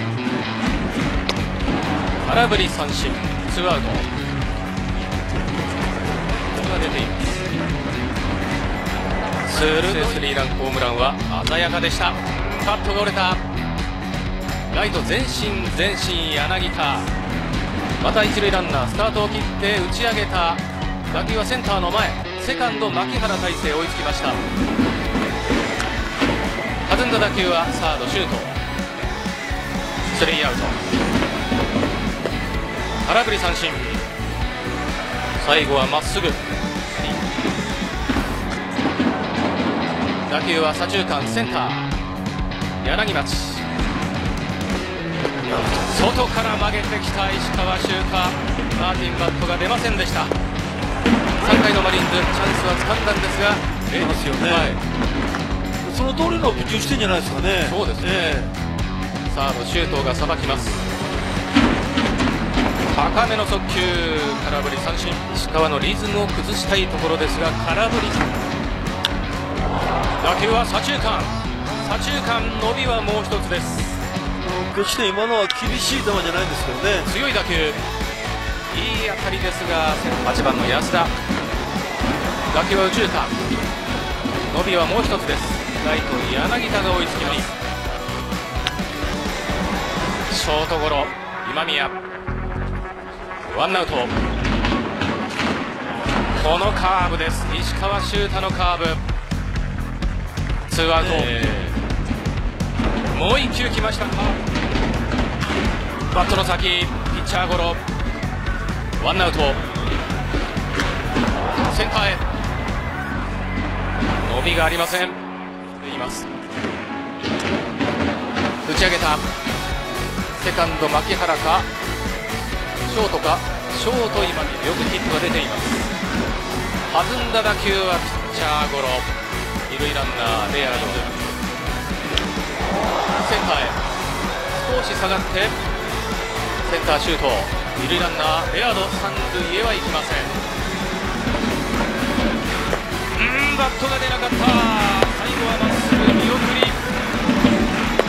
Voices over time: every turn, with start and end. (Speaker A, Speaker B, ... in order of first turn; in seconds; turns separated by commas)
Speaker A: 2.2-4.1, Speaker A: 6.5-7.3, Speaker A: 9.4-13.4, Speaker A: 14.7-17.1, Speaker A: 18.0-24.4, Speaker A: 26.9-28.6, Speaker A: 30.1-30.8, Speaker A: 33.0-34.0, Speaker A: 35.4-36.4, Speaker A: 40.3-41.9, Speaker A: 42.8-43.6, Speaker A: 45.7-50.3, Speaker A: 51.4-54.8, Speaker B: 53.9-54.8, Speaker B: 55.8-58.5, Speaker A: 57.6-58.4, Speaker A: 59.3-60.8, Speaker A: 62.9-68.3, Speaker A: 70.2-74.0, Speaker B: 74.4-77.1, Speaker A: 77.0-77.8, Speaker A: 78.7-81.1, Speaker A: 82.5-83.4, Speaker A: 84.5-87.5, Speaker A: 90.3-92.0, Speaker A: 93.4-94.2, Speaker A: 96.3-99.0, Speaker A: 100.7-101.8, Speaker B: 101.0-101.3, Speaker A: 103.1-104.4, Speaker A: 106.1-107.8, Speaker A: 109.0-109.6, Speaker A: 111.6-112.2, Speaker A: 114.2-115.2, Speaker A: 115.8-116.3, Speaker A: 118.6-119.3, Speaker A: 120.4-121.7, Speaker A: 122.9-125.9, Speaker A: 126.9-129.1, Speaker A: 129.7-131.3, Speaker A: 133.1-133.8, Speaker A: 134.5-135.5, Speaker A: 136.6-140.3, Speaker A: 143.1-146.8